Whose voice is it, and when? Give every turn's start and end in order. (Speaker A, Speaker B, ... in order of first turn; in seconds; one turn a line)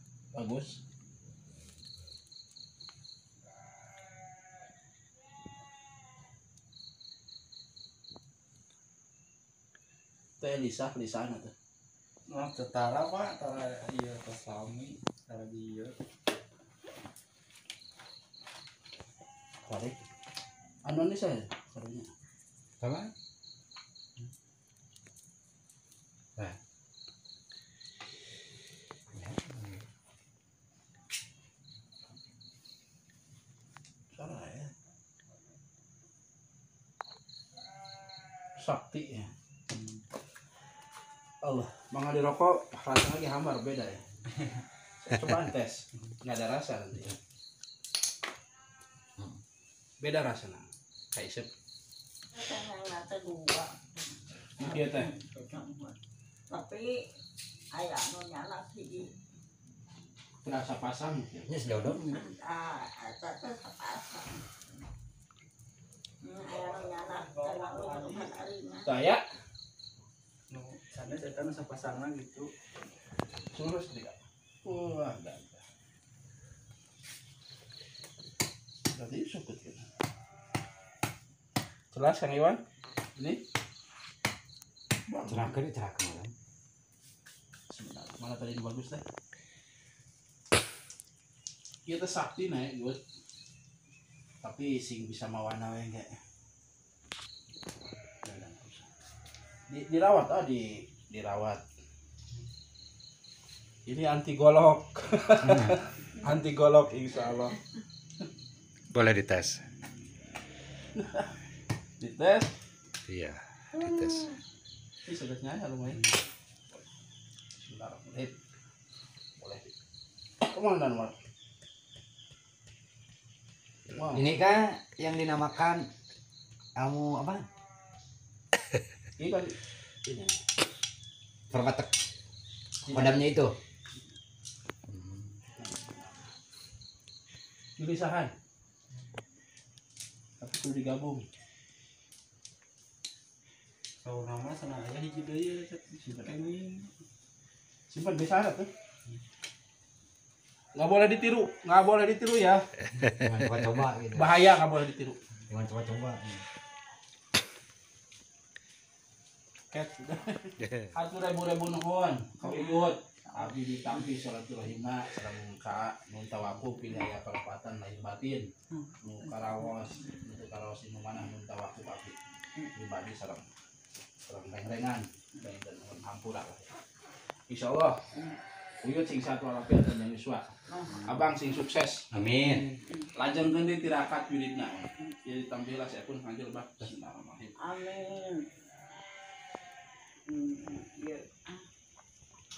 Speaker A: 0.3-0.8
Speaker A: 10.4-11.5
Speaker B: 12.3-16.0
Speaker A: 19.6-20.0
Speaker A: 20.9-22.1
Speaker C: 22.8-23.1
Speaker C: 29.1-29.9
Speaker A: 34.1-34.7
Speaker A: 38.6-39.3
Speaker A: 41.4-44.0
Speaker A: 45.0-47.1
Speaker A: 50.0-51.5
Speaker D: 52.3-54.1
Speaker D: 54.6-56.0
Speaker A: 54.6-55.1
Speaker D: 56.5-57.0
Speaker D: 57.7-59.1
Speaker A: 60.4-61.5
Speaker C: 61.5-62.2
Speaker D: 61.8-64.5
Speaker D: 66.2-68.9
Speaker B: 66.5-68.3
Speaker A: 68.8-69.2
Speaker B: 70.5-72.5
Speaker A: 73.5-75.6
Speaker A: 78.9-79.9
Speaker A: 81.9-82.6
Speaker A: 83.2-83.4
Speaker A: 85.1-85.6
Speaker C: 85.3-86.3
Speaker A: 87.7-89.0
Speaker A: 91.9-93.0
Speaker A: 94.4-96.2
Speaker A: 98.2-98.9
Speaker A: 99.7-101.6
Speaker A: 103.9-107.6
Speaker C: 105.4-105.8
Speaker C: 108.9-109.6
Speaker A: 111.0-111.3
Speaker A: 112.0-112.5
Speaker C: 113.1-114.3
Speaker A: 115.0-116.2
Speaker A: 117.6-118.4
Speaker A: 119.4-119.7
Speaker A: 120.4-121.2
Speaker A: 123.9-124.3
Speaker C: 124.1-125.8
Speaker C: 126.8-127.4
Speaker A: 129.2-130.4
Speaker C: 131.5-131.9
Speaker A: 132.8-133.3
Speaker C: 132.9-133.6
Speaker C: 134.9-135.4
Speaker A: 135.6-136.3
Speaker A: 137.8-138.3
Speaker A: 140.4-141.3
Speaker B: 144.0-146.9
Speaker A: 147.9-148.7
Speaker A: 150.7-152.7
Speaker C: 153.0-154.3
Speaker A: 154.1-155.2
Speaker C: 155.5-156.5
Speaker A: 159.7-168.5
Speaker D: 162.4-164.0
Speaker A: 169.0-172.2
Speaker D: 169.2-169.8
Speaker A: 172.7-173.5
Speaker A: 174.3-176.7
Speaker A: 177.5-178.0
Speaker A: 178.8-182.1
Speaker D: 180.7-181.2
Speaker C: 182.1-182.7
Speaker A: 183.1-187.6
Speaker D: 187.6-188.5
Speaker D: 190.3-191.7